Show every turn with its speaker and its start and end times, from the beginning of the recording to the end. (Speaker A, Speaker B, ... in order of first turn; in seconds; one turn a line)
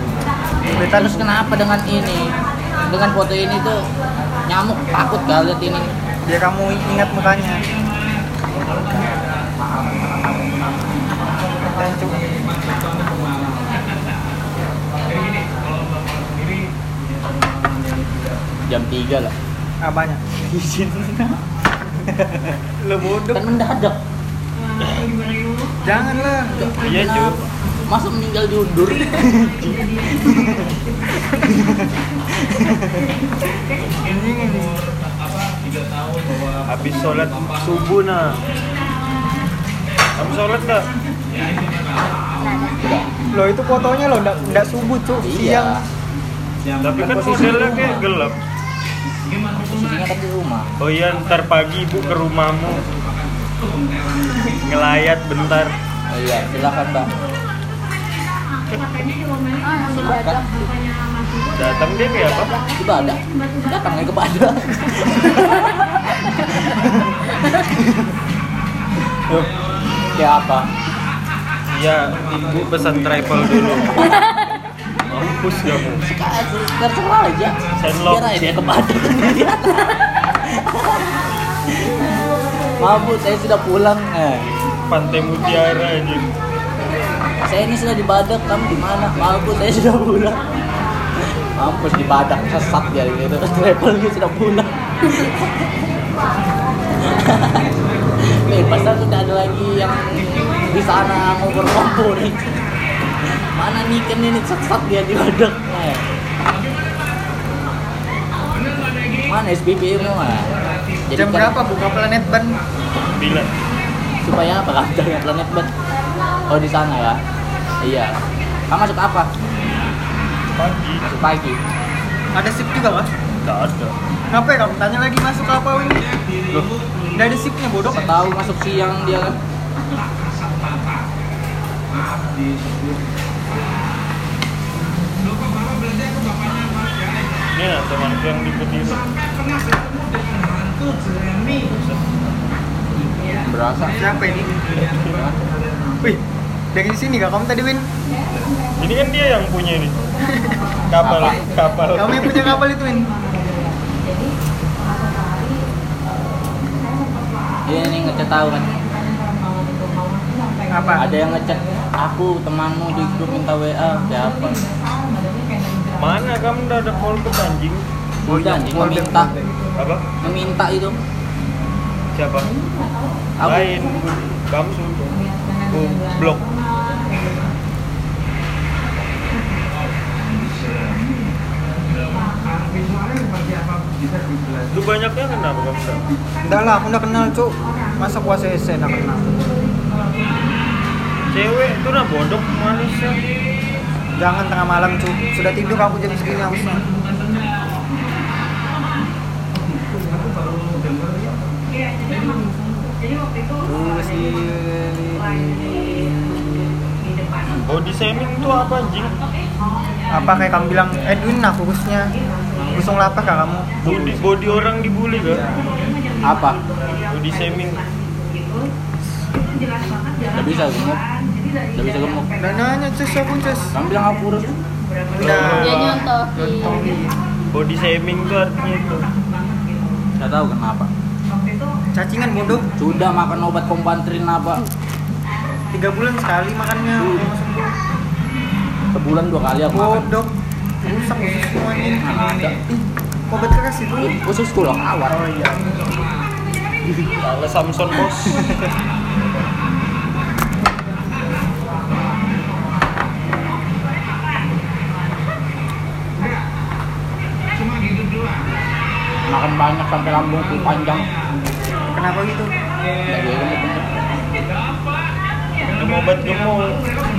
Speaker A: 0.6-2.3
Speaker B: 0.7-1.4
Speaker A: 2.9-3.8
Speaker A: 4.5-5.9
Speaker B: 6.3-7.6
Speaker A: 8.5-11.0
Speaker B: 11.7-12.2
Speaker A: 18.7-19.3
Speaker B: 19.8-20.2
Speaker A: 20.5-21.4
Speaker A: 22.0-22.6
Speaker B: 22.8-23.4
Speaker A: 23.3-24.0
Speaker B: 25.8-26.6
Speaker A: 26.5-30.6
Speaker C: 26.8-27.4
Speaker B: 30.2-30.6
Speaker B: 34.0-34.7
Speaker C: 36.7-38.4
Speaker C: 40.2-40.9
Speaker D: 42.2-42.8
Speaker A: 42.8-43.1
Speaker B: 43.3-45.7
Speaker A: 45.2-45.8
Speaker C: 46.8-48.4
Speaker A: 47.0-48.0
Speaker A: 49.5-50.6
Speaker C: 50.8-52.9
Speaker C: 54.6-55.7
Speaker A: 56.1-57.1
Speaker D: 59.6-60.7
Speaker A: 60.0-60.4
Speaker C: 61.5-62.5
Speaker A: 62.7-67.1
Speaker A: 70.2-70.7
Speaker C: 71.7-74.1
Speaker C: 75.1-76.0
Speaker A: 75.6-81.2
Speaker C: 77.8-78.3
Speaker A: 81.7-82.1
Speaker A: 82.8-84.5
Speaker C: 84.9-86.3
Speaker A: 87.5-90.4
Speaker A: 91.2-95.9
Speaker A: 97.0-102.6
Speaker A: 103.5-106.0
Speaker A: 109.3-110.5
Speaker A: 111.1-111.5
Speaker B: 111.1-112.6
Speaker C: 113.1-113.5
Speaker A: 114.2-115.7
Speaker A: 116.5-117.2
Speaker A: 117.8-118.2
Speaker A: 118.7-119.3
Speaker C: 120.6-121.0
Speaker A: 121.0-121.6
Speaker B: 122.3-123.1
Speaker C: 123.4-123.9
Speaker B: 124.3-126.0
Speaker B: 127.1-128.2
Speaker A: 127.8-129.4
Speaker C: 137.5-139.1
Speaker C: 141.6-142.1
Speaker A: 143.0-144.0
Speaker B: 143.9-144.5
Speaker A: 144.9-145.4
Speaker B: 146.7-147.8
Speaker C: 148.8-149.9
Speaker C: 150.9-152.6
Speaker A: 151.0-151.4
Speaker B: 151.9-153.1
Speaker A: 157.7-158.8
Speaker B: 160.7-161.1
Speaker A: 161.0-164.6
Speaker C: 166.0-167.8
Speaker A: 168.2-169.3
Speaker B: 168.3-169.5
Speaker C: 169.8-170.0
Speaker A: 170.2-171.0
Speaker C: 172.1-172.5
Speaker A: 173.4-173.7
Speaker C: 173.4-175.1
Speaker C: 175.7-176.5
Speaker C: 184.7-186.0
Speaker B: 186.4-189.3
Speaker C: 191.3-193.2
Speaker B: 194.2-196.8
Speaker B: 203.6-206.1
Speaker C: 207.6-209.1
Speaker B: 210.1-212.1
Speaker B: 212.7-213.7
Speaker A: 213.8-214.2
Speaker C: 213.8-215.4
Speaker B: 215.3-215.6
Speaker A: 216.2-216.6
Speaker C: 217.1-217.8
Speaker A: 220.3-221.0
Speaker A: 221.7-222.3
Speaker B: 222.4-223.7
Speaker A: 223.7-224.5
Speaker B: 225.1-227.1
Speaker C: 225.1-226.0
Speaker D: 225.4-226.9
Speaker C: 227.5-229.1
Speaker A: 230.2-230.9
Speaker B: 231.9-232.7
Speaker A: 232.8-234.7
Speaker B: 235.7-237.7
Speaker A: 238.9-240.1
Speaker B: 239.7-244.1
Speaker A: 242.0-242.6
Speaker A: 244.0-245.2
Speaker B: 245.1-245.8
Speaker C: 247.2-248.7
Speaker A: 259.3-261.1
Speaker B: 261.9-262.5
Speaker A: 263.1-263.9
Speaker C: 265.8-266.8